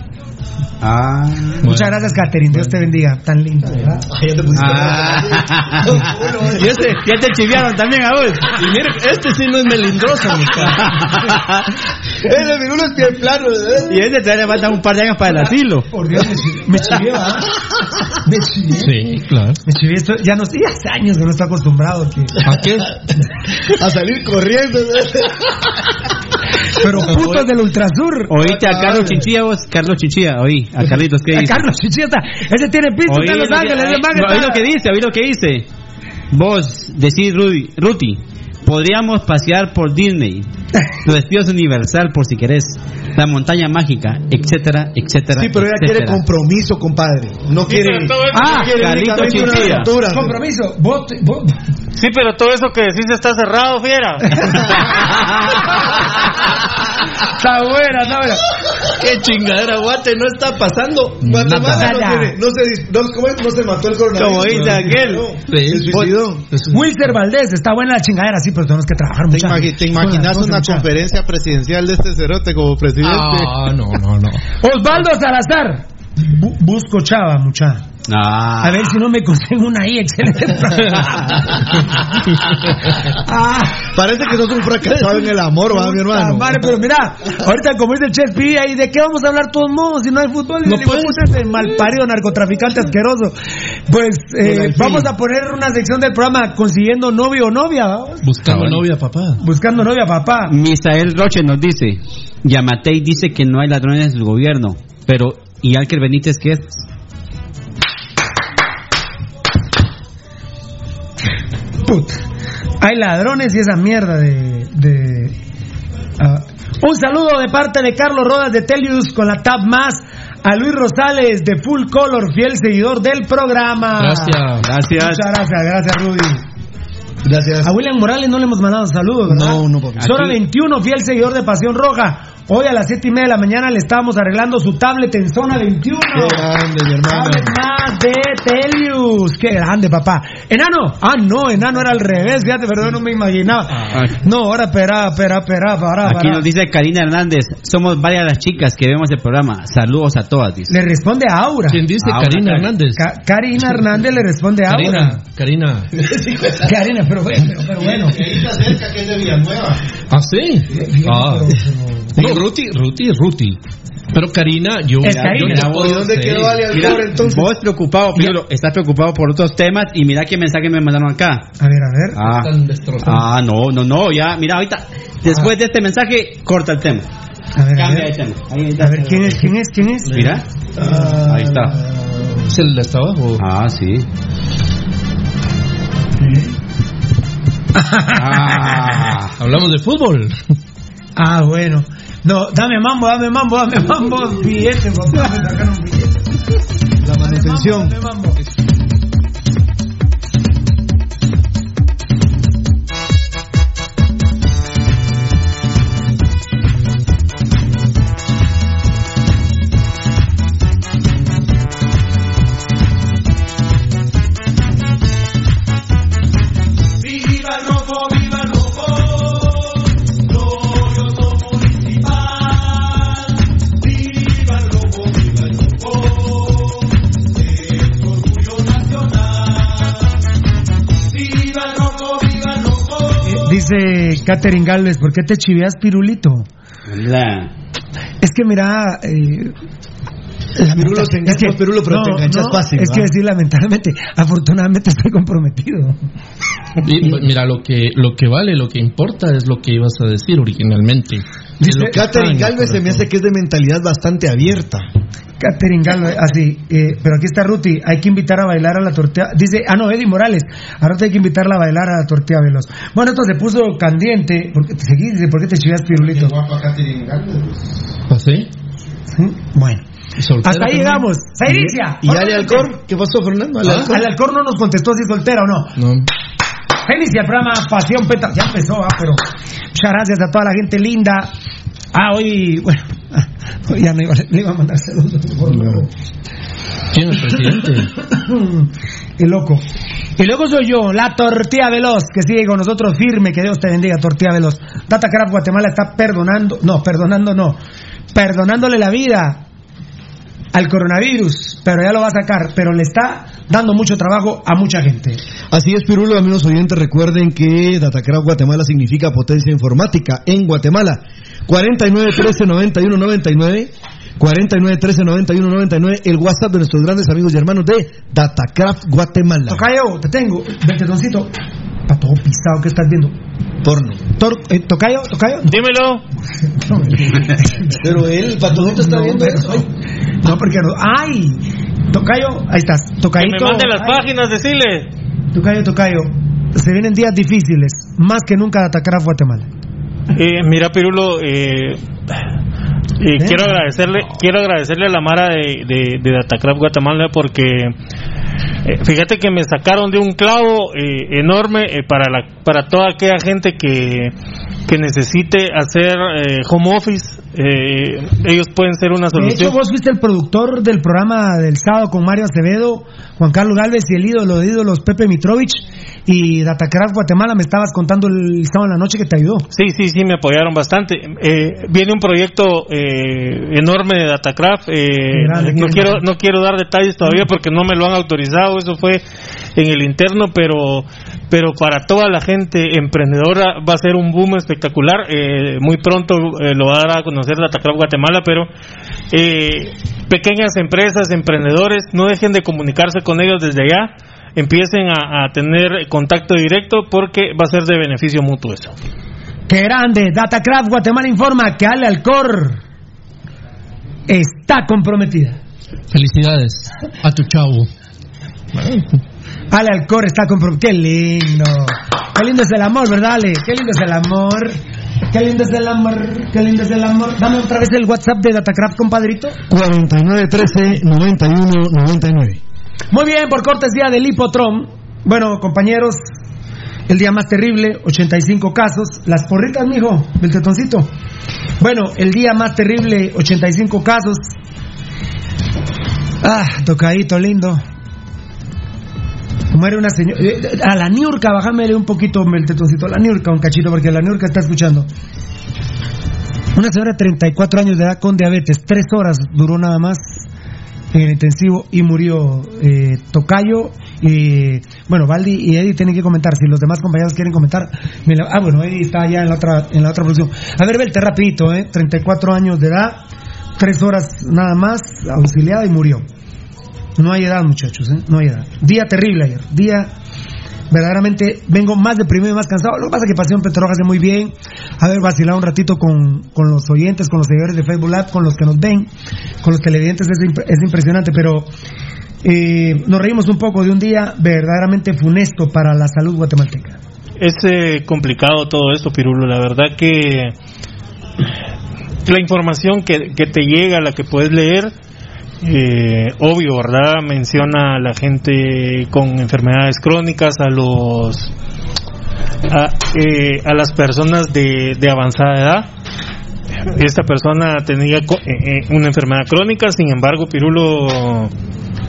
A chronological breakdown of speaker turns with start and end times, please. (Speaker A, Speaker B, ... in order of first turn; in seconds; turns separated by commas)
Speaker A: 0.8-1.6, Speaker B: 1.6-2.8, Speaker C: 1.6-4.1, Speaker D: 4.0-6.9, Speaker A: 4.5-6.1, Speaker B: 6.5-7.2, Speaker A: 6.8-8.6, Speaker B: 8.5-10.9, Speaker A: 10.7-11.7, Speaker D: 12.2-14.0, Speaker A: 13.8-15.9, Speaker C: 15.9-17.5, Speaker C: 18.2-18.9, Speaker B: 18.8-19.6, Speaker C: 19.6-22.4, Speaker B: 22.4-22.9, Speaker D: 23.6-25.6, Speaker C: 26.8-28.3, Speaker A: 28.3-31.7, Speaker D: 28.3-29.3, Speaker C: 31.3-34.6, Speaker A: 33.0-35.7, Speaker A: 36.3-40.5, Speaker A: 41.0-46.2, Speaker D: 45.3-50.4, Speaker E: 47.6-49.0, Speaker C: 48.3-48.7, Speaker A: 48.7-49.9, Speaker C: 50.0-51.6, Speaker E: 51.9-54.8, Speaker C: 54.3-54.8, Speaker A: 55.0-55.6, Speaker C: 57.1-58.5, Speaker B: 58.8-62.0, Speaker D: 61.2-66.5, Speaker C: 61.6-62.4, Speaker B: 64.2-67.2, Speaker C: 66.7-70.9, Speaker F: 69.3-73.7, Speaker B: 73.0-74.4, Speaker C: 74.6-77.8, Speaker A: 78.1-78.9, Speaker C: 78.6-82.0, Speaker C: 83.0-83.9, Speaker D: 83.8-86.8, Speaker C: 85.7-93.3, Speaker B: 90.7-91.3, Speaker C: 93.9-98.2, Speaker D: 94.4-95.1, Speaker B: 98.2-99.4, Speaker A: 98.4-98.8, Speaker C: 99.4-100.5, Speaker A: 100.5-106.8, Speaker C: 111.8-112.2, Speaker C: 112.8-115.3, Speaker C: 116.2-126.4, Speaker B: 124.0-124.7, Speaker A: 124.6-125.3, Speaker D: 127.2-127.7, Speaker C: 127.6-136.5, Speaker D: 129.3-130.3, Speaker B: 130.0-130.3, Speaker D: 136.1-137.6, Speaker C: 137.1-146.4, Speaker B: 143.7-144.1, Speaker A: 146.0-150.8, Speaker C: 150.7-151.8, Speaker B: 151.7-153.1, Speaker A: 152.0-152.7, Speaker C: 152.9-155.2, Speaker B: 154.6-155.9, Speaker D: 155.9-156.7, Speaker C: 156.6-158.2, Speaker F: 157.8-159.7, Speaker D: 158.1-159.1, Speaker B: 160.1-161.6, Speaker C: 160.7-162.1, Speaker D: 162.2-162.4, Speaker B: 162.2-163.6, Speaker B: 164.1-166.8, Speaker C: 165.0-165.6, Speaker A: 165.0-171.5, Speaker D: 165.6-167.5, Speaker C: 171.6-172.2, Speaker A: 172.2-172.5, Speaker B: 172.2-173.3, Speaker A: 173.0-177.1, Speaker C: 177.6-178.1, Speaker A: 177.8-179.5, Speaker C: 178.8-180.2, Speaker B: 180.1-180.4, Speaker A: 180.1-180.4, Speaker D: 180.8-182.5, Speaker A: 181.2-181.7, Speaker B: 182.5-183.4, Speaker A: 183.4-184.0, Speaker C: 187.7-188.7, Speaker A: 188.2-189.3, Speaker B: 188.4-190.4, Speaker C: 191.2-196.2, Speaker D: 197.0-198.0, Speaker C: 197.2-198.4, Speaker C: 233.2-236.5, Speaker A: 236.9-237.5, Speaker C: 238.2-239.5, Speaker C: 240.6-246.0, Speaker D: 240.7-243.1, Speaker B: 246.8-253.1, Speaker C: 251.6-252.0, Speaker D: 251.9-254.8, Speaker C: 255.4-266.3, Speaker F: 266.0-267.6, Speaker B: 268.1-268.5, Speaker C: 269.1-269.8, Speaker B: 270.2-271.7, Speaker C: 270.4-272.8, Speaker D: 272.0-274.1, Speaker C: 273.7-275.7, Speaker B: 275.8-276.1, Speaker C: 276.8-279.2, Speaker C: 279.7-281.3, Speaker C: 281.9-285.9, Speaker B: 286.9-287.9, Speaker C: 288.0-289.6, Speaker C: 290.2-297.6, Speaker C: 298.1-299.4, Speaker C: 300.5-305.2, Speaker D: 305.5-319.6, Speaker C: 319.5-321.3, Speaker C: 321.9-323.1, Speaker D: 323.6-324.0, Speaker C: 324.2-325.6, Speaker E: 325.5-326.0, Speaker C: 326.5-327.8, Speaker D: 327.7-329.7, Speaker C: 328.5-329.6, Speaker C: 330.2-334.1, Speaker E: 333.2-334.9, Speaker C: 335.3-339.5, Speaker E: 340.1-341.8, Speaker E: 343.0-347.8, Speaker C: 343.2-343.5, Speaker E: 348.6-354.1, Speaker E: 354.7-359.6, Speaker C: 359.1-369.4, Speaker E: 369.5-379.0, Speaker C: 375.1-376.0, Speaker E: 379.5-388.5, Speaker E: 389.1-398.7, Speaker C: 399.5-402.6, Speaker C: 404.1-405.4, Speaker B: 405.9-407.7, Speaker B: 408.5-408.9, Speaker C: 409.5-414.6, Speaker C: 415.1-419.4, Speaker D: 419.5-422.4, Speaker C: 422.9-426.0, Speaker C: 426.9-430.9, Speaker C: 431.6-434.2, Speaker C: 436.2-437.6, Speaker C: 439.5-444.9, Speaker C: 446.5-450.2, Speaker C: 450.9-463.0, Speaker C: 463.6-466.1, Speaker C: 467.0-469.9, Speaker C: 470.7-478.9, Speaker C: 479.4-481.5, Speaker C: 482.2-486.8, Speaker E: 487.2-490.3, Speaker E: 492.1-494.7, Speaker E: 495.4-501.3, Speaker E: 502.5-505.7, Speaker E: 506.7-511.3